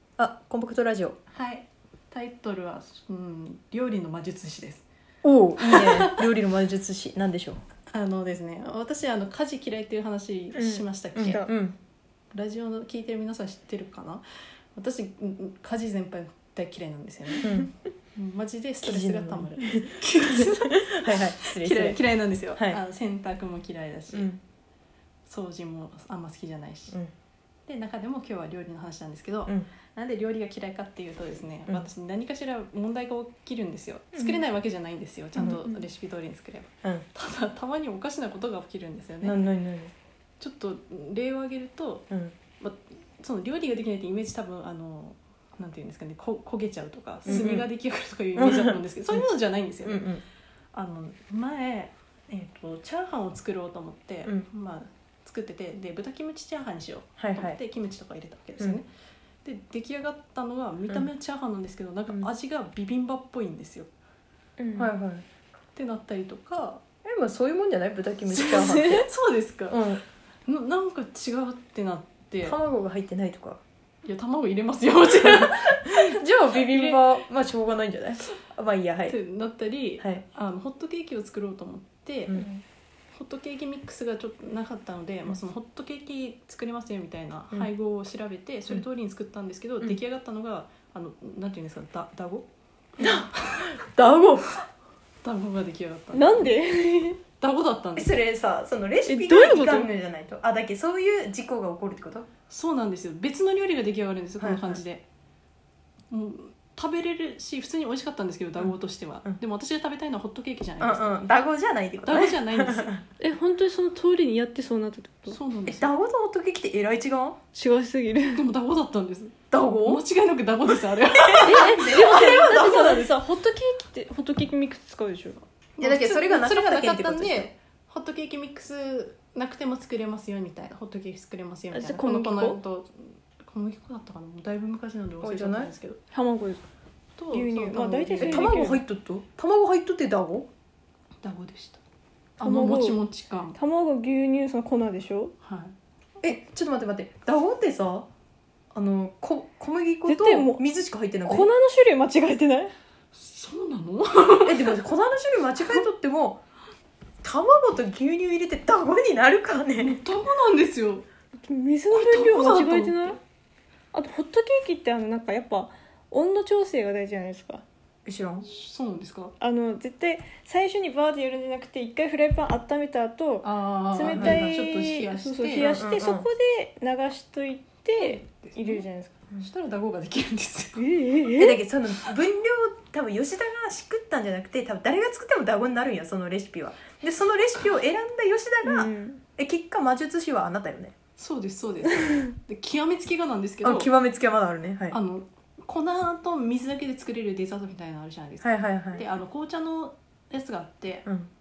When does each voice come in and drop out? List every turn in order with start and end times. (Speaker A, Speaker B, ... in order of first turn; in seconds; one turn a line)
Speaker A: 0.2-1.2
Speaker B: 1.3-4.8
Speaker A: 5.2-7.6
Speaker B: 5.7-6.2
Speaker B: 7.9-11.4
Speaker A: 10.6-11.8
Speaker C: 11.2-11.5
Speaker B: 12.3-14.2
Speaker B: 14.7-24.3
Speaker A: 17.4-17.7
Speaker A: 18.8-22.0
Speaker A: 24.1-24.4
Speaker B: 25.3-27.0
Speaker B: 27.7-39.4
Speaker A: 35.4-35.6
Speaker C: 35.4-35.8
Speaker A: 39.2-39.9
Speaker B: 40.4-42.1
Speaker A: 42.1-42.3
Speaker B: 42.6-50.1
Speaker A: 47.2-47.7
Speaker A: 48.4-48.8
Speaker A: 49.8-50.2
Speaker B: 50.7-58.9
Speaker A: 57.2-57.6
Speaker B: 59.4-63.9
Speaker C: 64.6-64.9
Speaker A: 64.8-65.2
Speaker B: 65.8-66.8
Speaker A: 67.0-69.0
Speaker B: 68.3-69.8
Speaker C: 68.6-69.1
Speaker A: 69.7-70.0
Speaker B: 70.5-72.5
Speaker A: 72.4-73.6
Speaker B: 74.0-77.0
Speaker A: 75.3-79.2
Speaker B: 79.1-82.4
Speaker C: 82.3-82.6
Speaker B: 83.1-92.5
Speaker A: 93.0-94.5
Speaker B: 93.0-93.7
Speaker B: 95.2-96.5
Speaker C: 96.1-97.2
Speaker B: 97.4-98.1
Speaker A: 98.0-102.3
Speaker C: 99.0-99.9
Speaker B: 102.5-105.0
Speaker A: 104.4-104.8
Speaker B: 106.1-111.2
Speaker A: 110.8-113.0
Speaker B: 112.0-112.9
Speaker C: 113.2-115.4
Speaker B: 115.3-115.9
Speaker A: 115.7-117.4
Speaker C: 117.5-118.5
Speaker B: 118.3-123.1
Speaker A: 119.5-120.0
Speaker A: 121.3-123.0
Speaker C: 121.4-125.4
Speaker B: 125.8-136.0
Speaker A: 125.8-127.5
Speaker C: 131.7-132.6
Speaker A: 135.2-135.7
Speaker C: 136.1-136.6
Speaker B: 137.2-138.6
Speaker C: 137.3-138.8
Speaker A: 138.2-140.5
Speaker B: 141.2-141.8
Speaker B: 142.4-143.6
Speaker C: 142.4-143.0
Speaker C: 143.5-145.3
Speaker B: 145.4-145.7
Speaker A: 146.2-148.1
Speaker A: 148.7-151.5
Speaker C: 150.1-150.6
Speaker C: 151.2-152.7
Speaker B: 153.1-154.8
Speaker A: 154.4-156.4
Speaker A: 157.2-160.0
Speaker B: 159.8-161.1
Speaker C: 161.4-163.2
Speaker B: 161.9-163.2
Speaker C: 163.9-167.6
Speaker A: 168.1-168.5
Speaker B: 168.4-169.3
Speaker C: 169.4-179.2
Speaker B: 173.4-175.8
Speaker A: 174.1-174.4
Speaker A: 175.6-176.3
Speaker B: 177.9-180.8
Speaker C: 180.8-181.6
Speaker A: 181.4-190.9
Speaker C: 188.6-189.2
Speaker B: 191.2-193.9
Speaker A: 193.6-195.0
Speaker B: 194.9-201.1
Speaker A: 198.4-199.0